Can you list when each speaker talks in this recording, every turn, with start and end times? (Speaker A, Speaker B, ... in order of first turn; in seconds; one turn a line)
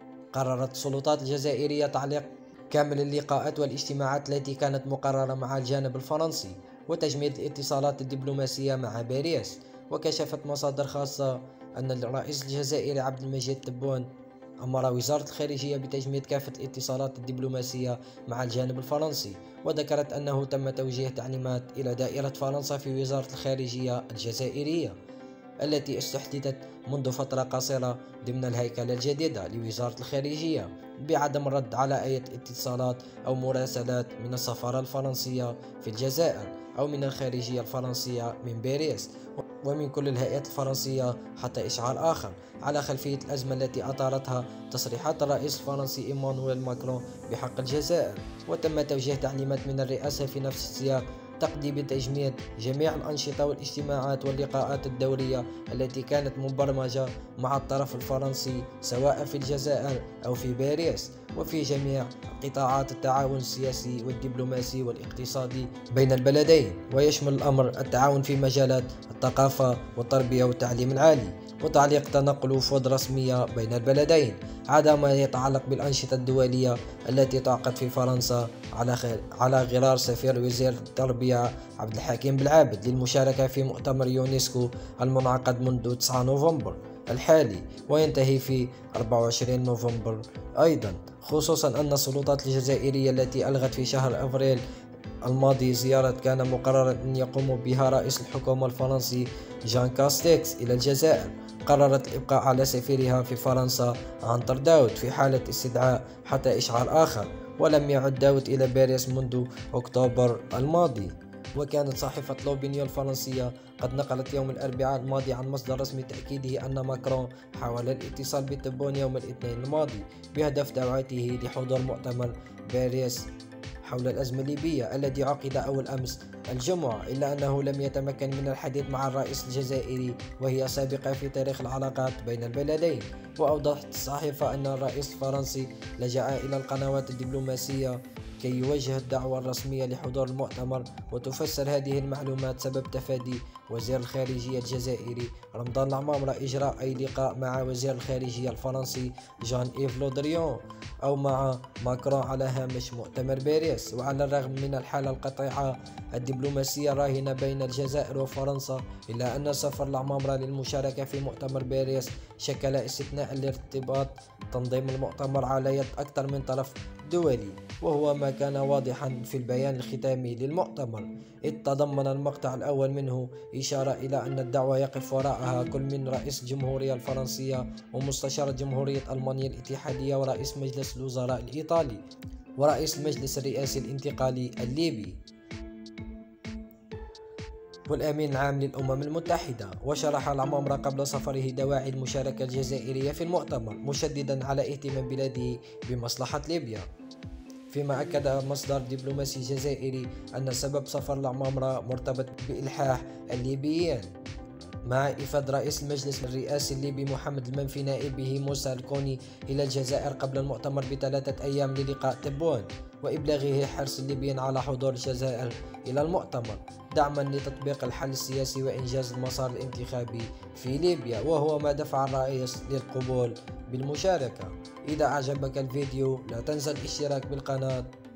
Speaker A: 0.3-14.1
Speaker A: 14.6-24.9
Speaker A: 25.6-94.6
Speaker A: 95.2-123.2
Speaker A: 123.8-182.0
Speaker A: 182.6-185.2
Speaker A: 187.9-196.8
Speaker A: 197.7-204.1
Speaker A: 204.9-227.9